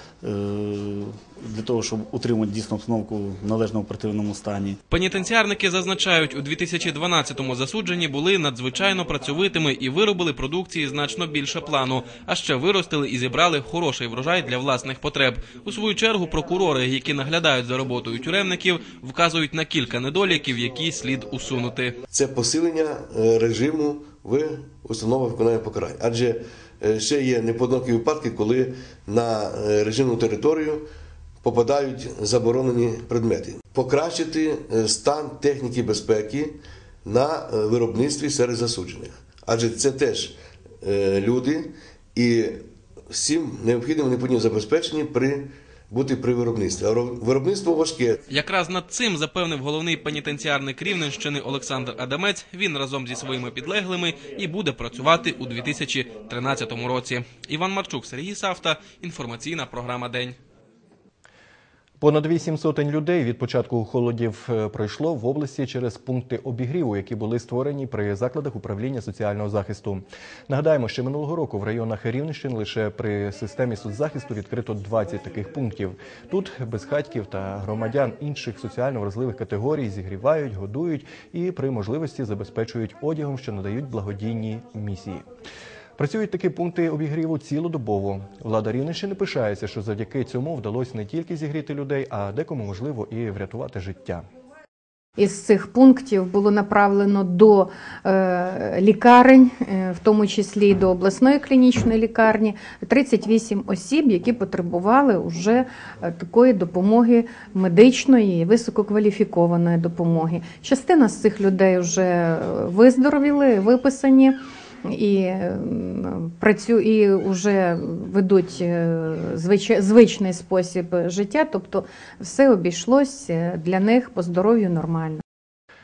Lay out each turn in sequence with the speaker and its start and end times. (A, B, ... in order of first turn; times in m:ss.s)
0:00.2-0:04.8 A
0:04.9-0:21.9 B
0:22.1-0:30.8 C
0:31.4-0:48.2 C
0:48.3-1:00.4 B
1:02.0-1:25.2 D
1:26.0-1:34.2 D
1:35.2-2:05.2 E